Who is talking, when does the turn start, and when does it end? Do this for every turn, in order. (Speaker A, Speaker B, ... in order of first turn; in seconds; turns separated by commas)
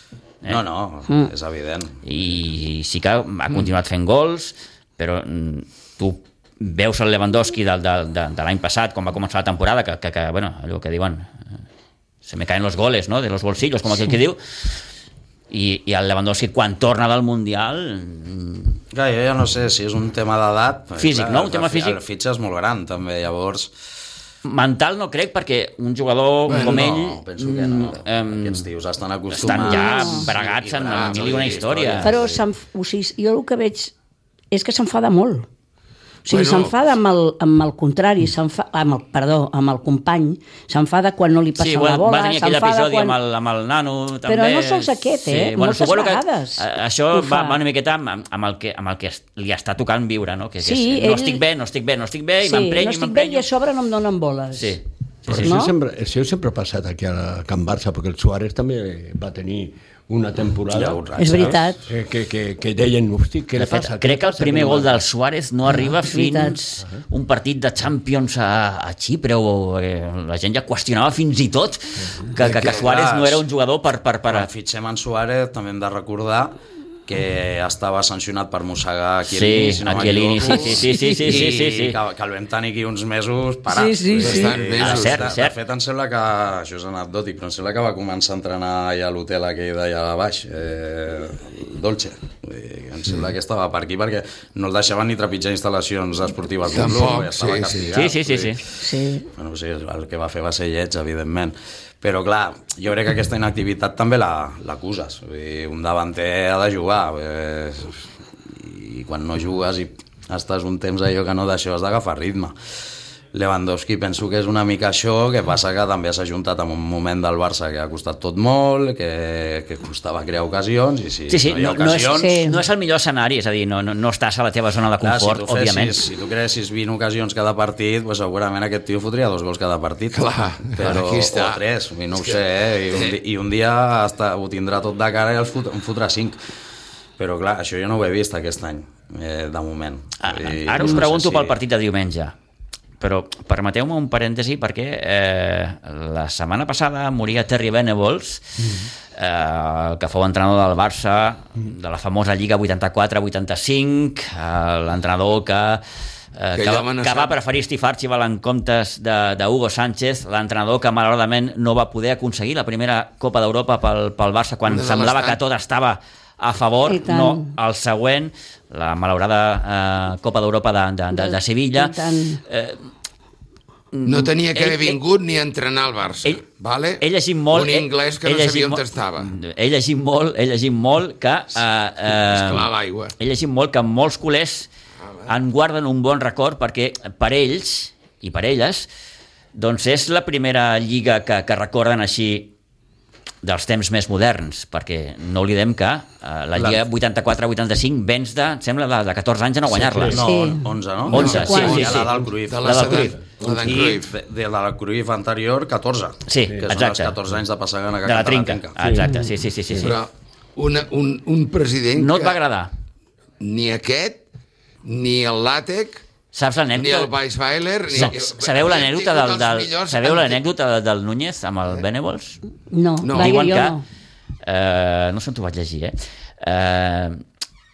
Speaker A: 0.4-2.0, Speaker B: 2.0-11.4, Speaker B: 12.2-14.4, Speaker B: 15.5-18.8, Speaker A: 18.9-23.7, Speaker B: 21.0-22.0, Speaker B: 24.4-28.6, Speaker C: 26.5-26.9, Speaker A: 26.5-32.4, Speaker B: 29.3-32.1, Speaker D: 29.5-30.3, Speaker C: 30.9-31.6, Speaker D: 32.0-33.9, Speaker D: 34.5-35.5, Speaker D: 36.2-43.2, Speaker C: 36.3-36.7, Speaker B: 41.6-53.4, Speaker D: 44.2-47.6, Speaker D: 50.6-51.4, Speaker D: 52.4-54.8, Speaker B: 54.5-55.6, Speaker E: 55.3-61.0, Speaker D: 55.3-55.7, Speaker A: 60.7-61.6, Speaker D: 61.2-61.8, Speaker E: 61.9-65.0, Speaker B: 63.5-74.5, Speaker D: 65.7-66.6, Speaker A: 72.4-73.4, Speaker C: 72.4-72.8, Speaker A: 74.3-112.5, Speaker B: 79.3-82.0, Speaker D: 80.5-81.4, Speaker D: 83.7-84.6, Speaker C: 84.2-85.3, Speaker B: 84.8-85.5, Speaker C: 96.7-98.0, Speaker B: 97.9-98.6, Speaker D: 98.8-99.2, Speaker A: 113.3-122.3, Speaker B: 121.3-126.0, Speaker D: 122.1-122.6, Speaker A: 125.0-136.4, Speaker C: 130.1-131.6, Speaker C: 132.9-133.2, Speaker A: 137.2-141.6, Speaker B: 140.2-142.3, Speaker B: 143.0-155.8, Speaker B: 156.3-172.8, Speaker C: 156.5-157.4, Speaker C: 164.7-165.4, Speaker D: 166.8-167.5, Speaker D: 171.1-172.4, Speaker B: 173.9-175.0, Speaker C: 174.1-179.3, Speaker B: 177.0-184.7, Speaker C: 182.2-183.1, Speaker B: 185.3-188.9, Speaker B: 189.5-192.5, Speaker B: 193.4-200.2, Speaker A: 196.6-196.8, Speaker E: 199.7-200.2, Speaker A: 200.1-208.8, Speaker D: 200.1-202.0, Speaker B: 201.1-203.1, Speaker C: 201.1-204.1, Speaker E: 201.2-201.6, Speaker E: 203.3-203.8, Speaker B: 206.3-207.2, Speaker B: 208.1-210.0, Speaker E: 208.8-209.1, Speaker C: 209.7-212.4, Speaker B: 211.9-212.7, Speaker C: 213.4-214.2, Speaker C: 214.8-216.0, Speaker B: 216.3-217.1, Speaker C: 216.7-220.4, Speaker B: 217.9-222.4, Speaker D: 222.7-223.8, Speaker C: 223.0-223.6, Speaker B: 223.1-223.8, Speaker B: 224.4-227.2